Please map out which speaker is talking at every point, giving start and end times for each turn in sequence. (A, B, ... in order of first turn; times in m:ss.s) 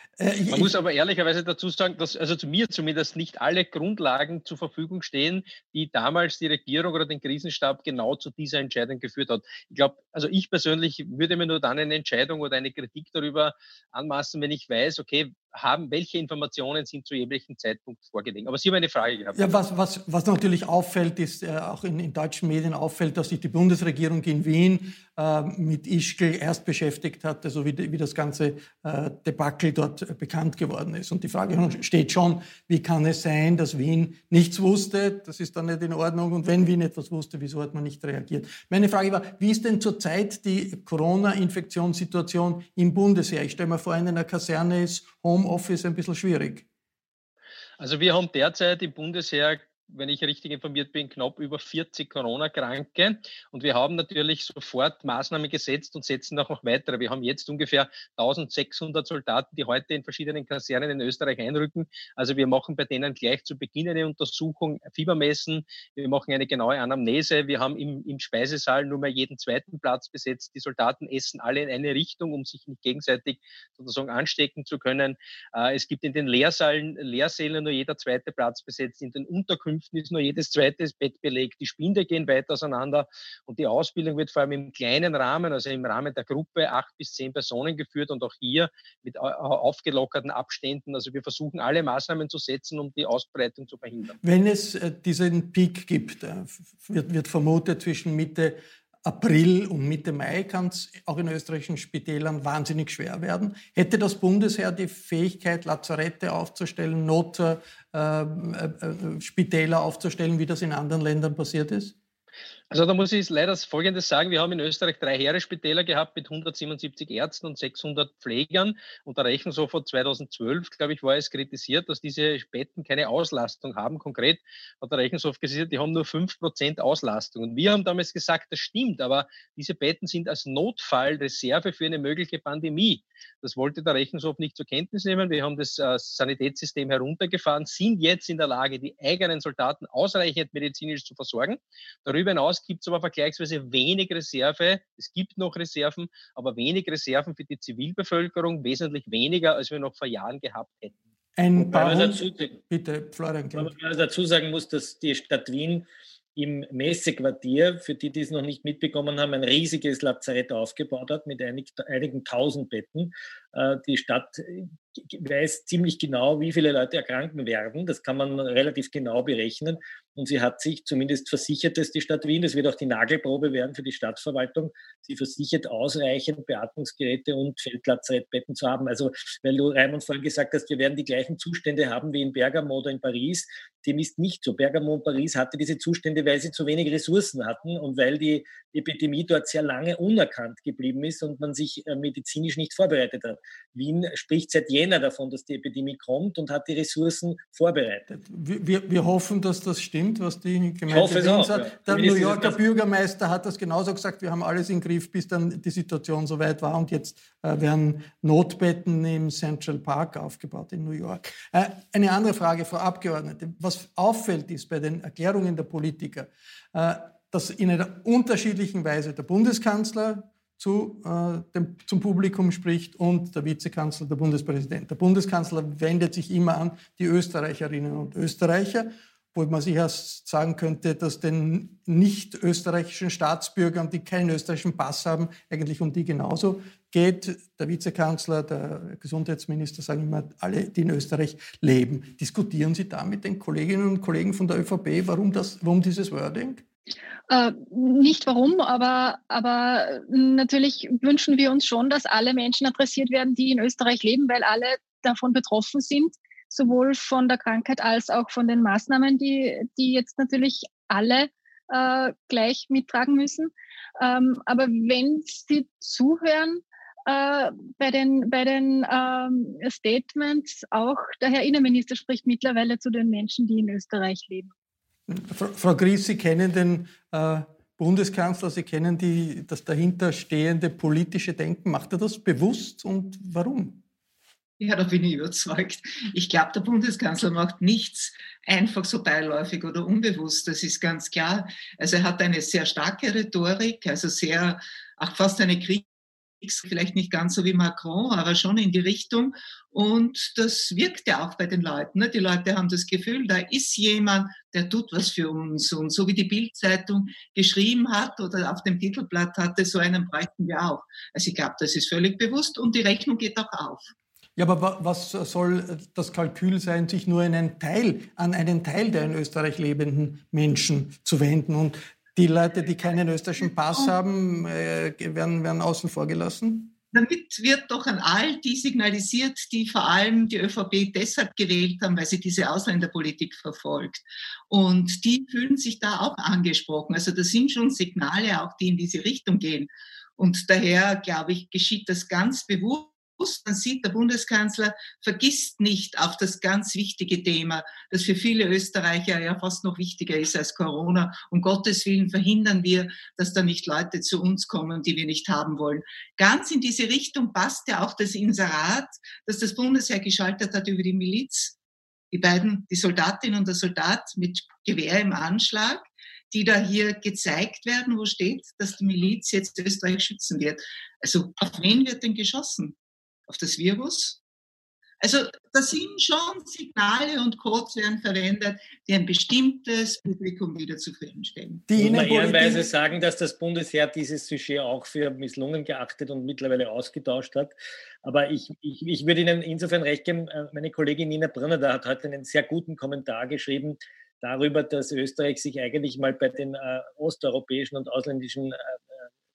0:00.2-0:00.7 A
0:00.5-0:19.6 B
0:19.3-0:46.6 A
0:47.8-1:34.2 B
1:34.2-1:51.9 A
1:52.7-2:31.0 B
2:31.4-2:33.7 A
2:31.6-2:32.6 C
2:33.5-3:18.0 C
3:18.1-4:06.6 A
3:20.9-3:22.6 C
4:07.3-4:34.5 D
4:35.1-4:43.8 A
4:44.6-4:55.8 E
4:56.4-5:13.9 E
5:14.4-5:26.7 A
5:26.9-6:01.6 E
6:02.1-6:12.7 E
6:13.3-6:14.2 E
6:15.0-6:21.7 E
6:21.7-6:22.7 A
6:21.8-6:39.0 C